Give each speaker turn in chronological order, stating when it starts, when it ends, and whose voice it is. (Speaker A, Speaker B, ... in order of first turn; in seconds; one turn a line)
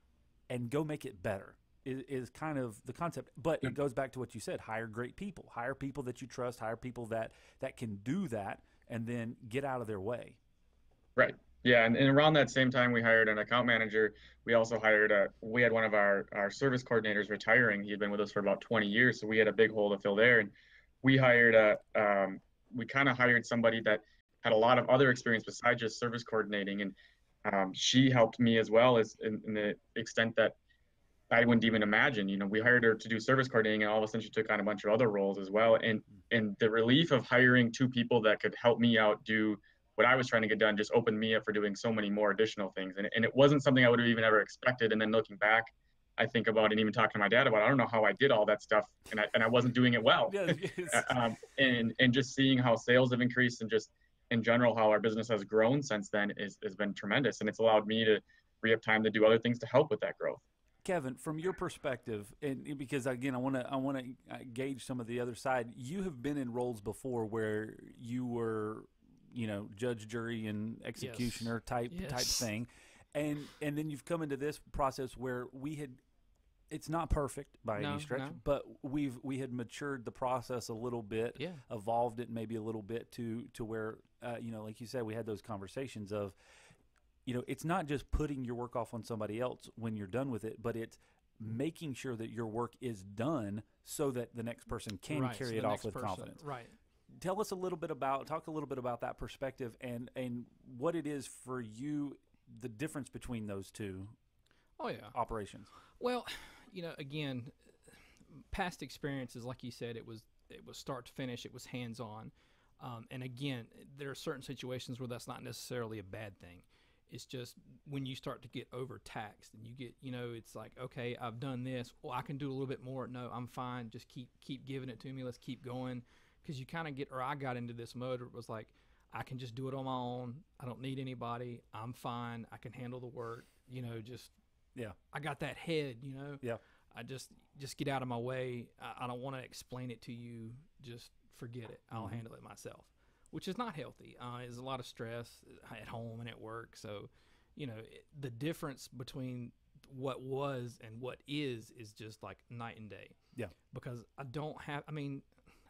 Speaker A: 0.5-10.4
Speaker B: 11.2-26.9
Speaker B: 27.4-30.6
Speaker B: 31.3-60.4
Speaker A: 50.3-51.2
Speaker A: 60.8-76.0
Speaker C: 71.0-72.5
Speaker A: 76.7-86.3
Speaker C: 77.8-78.4
Speaker C: 81.4-81.6
Speaker A: 87.2-96.4
Speaker C: 95.1-96.8
Speaker A: 97.1-104.1
Speaker C: 104.8-105.2
Speaker A: 105.1-105.7
Speaker C: 106.0-134.3
Speaker C: 135.1-153.2
Speaker A: 141.9-142.2
Speaker C: 153.7-155.2